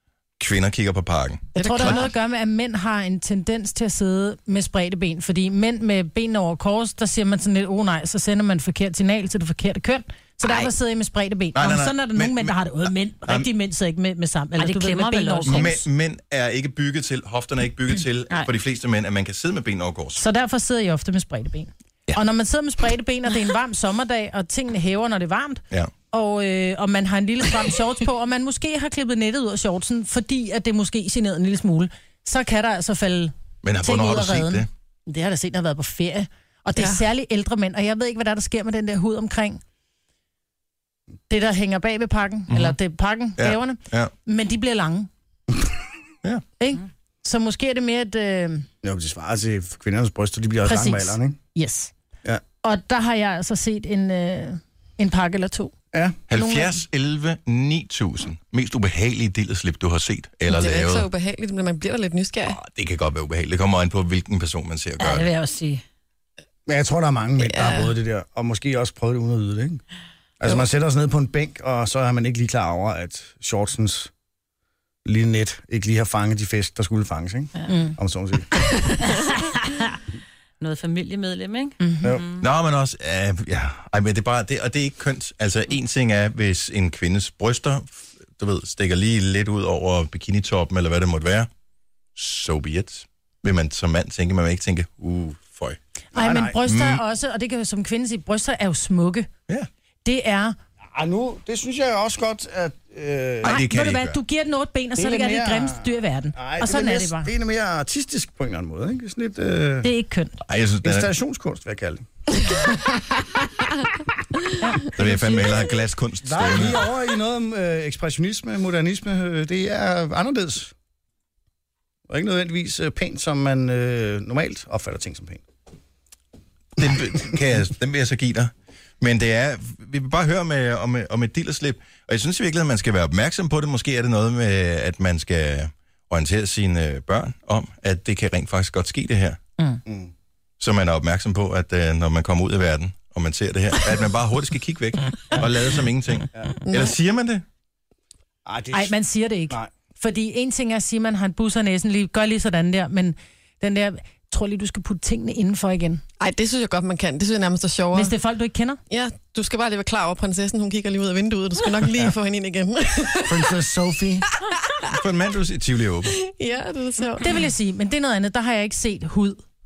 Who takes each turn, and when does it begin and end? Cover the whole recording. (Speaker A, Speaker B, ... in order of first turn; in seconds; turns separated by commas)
Speaker A: 0.4-2.0, Speaker B: 1.5-2.0, Speaker C: 1.6-15.8, Speaker A: 11.5-12.6, Speaker D: 14.6-15.7, Speaker A: 15.4-20.2, Speaker C: 20.2-39.6, Speaker A: 33.6-34.7, Speaker C: 41.3-45.1, Speaker A: 42.5-42.8, Speaker A: 43.4-44.1, Speaker C: 46.6-48.6, Speaker E: 48.8-51.4, Speaker C: 50.6-51.9, Speaker C: 52.6-55.7, Speaker A: 56.3-61.1, Speaker C: 56.3-56.8, Speaker B: 60.5-62.6, Speaker A: 62.4-65.3, Speaker D: 65.0-65.8, Speaker E: 66.7-69.8, Speaker B: 67.4-67.9, Speaker E: 70.4-74.1, Speaker E: 75.0-78.5, Speaker C: 77.7-78.0, Speaker D: 79.4-79.7, Speaker D: 80.6-82.4, Speaker C: 81.8-82.1, Speaker A: 82.4-91.5, Speaker A: 92.2-95.8, Speaker C: 96.1-99.3, Speaker E: 96.1-96.6, Speaker A: 96.6-97.0, Speaker C: 100.0-100.5, Speaker E: 100.9-103.6, Speaker A: 103.4-104.2, Speaker C: 103.4-107.3, Speaker E: 105.0-109.9, Speaker C: 109.8-110.3, Speaker A: 110.5-111.1, Speaker E: 110.8-112.0, Speaker C: 114.6-114.9, Speaker A: 114.9-116.8, Speaker E: 116.2-120.7, Speaker E: 122.1-125.4, Speaker A: 126.8-139.4, Speaker E: 139.8-140.1, Speaker A: 140.6-147.4, Speaker E: 148.4-148.9, Speaker C: 148.7-156.0, Speaker B: 156.2-158.1, Speaker C: 157.9-158.8, Speaker B: 158.9-163.5, Speaker E: 163.3-164.2, Speaker B: 164.5-164.9, Speaker A: 164.9-166.1, Speaker B: 166.2-167.3, Speaker C: 167.2-169.4